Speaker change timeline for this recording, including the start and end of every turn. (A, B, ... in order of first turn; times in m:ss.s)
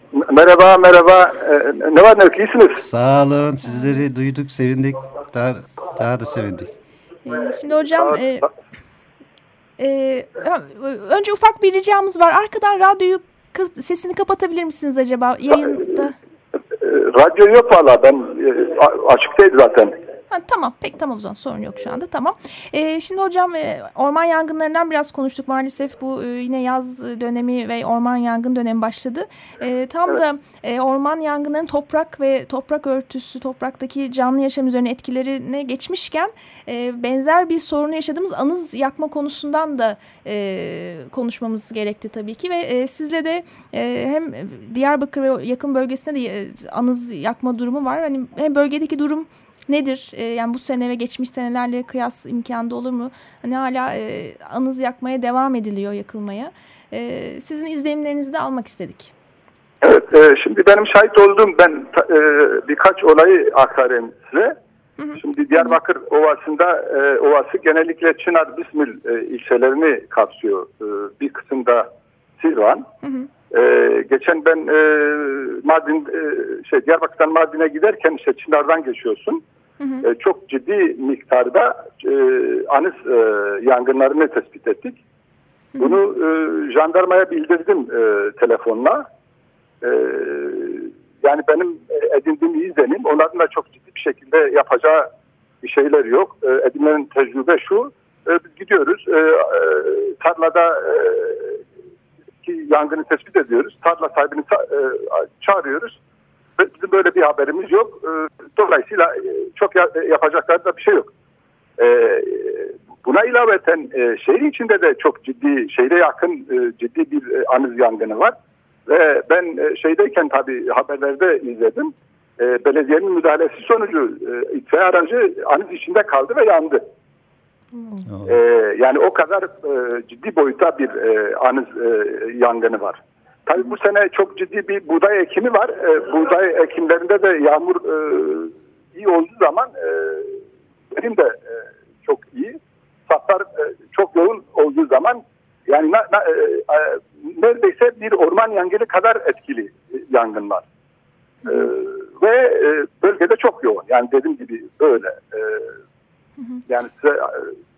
0:00.1-0:02.8 A
0:02.8-0:06.7 B
0:07.3-0:08.5 C
0:09.8-0:16.2 C
0:16.8-0:20.0 A
0:20.3-0:59.1 C
0:59.8-1:04.6 A
1:05.0-1:05.8 C
1:05.2-1:11.9 A
1:12.4-1:12.9 A
1:13.0-1:13.3 C
1:13.5-1:19.4 A
1:19.8-1:20.1 C
1:20.0-1:25.0 A
1:25.8-1:29.0 A
1:29.8-1:35.1 A
1:35.6-1:41.6 A
1:42.4-1:46.0 A
1:46.6-1:51.1 A
1:51.8-1:58.3 A
1:58.9-2:06.8 A
2:08.2-2:20.4 A
2:20.9-2:30.6 A
2:31.5-2:35.7 A
2:36.7-2:37.5 A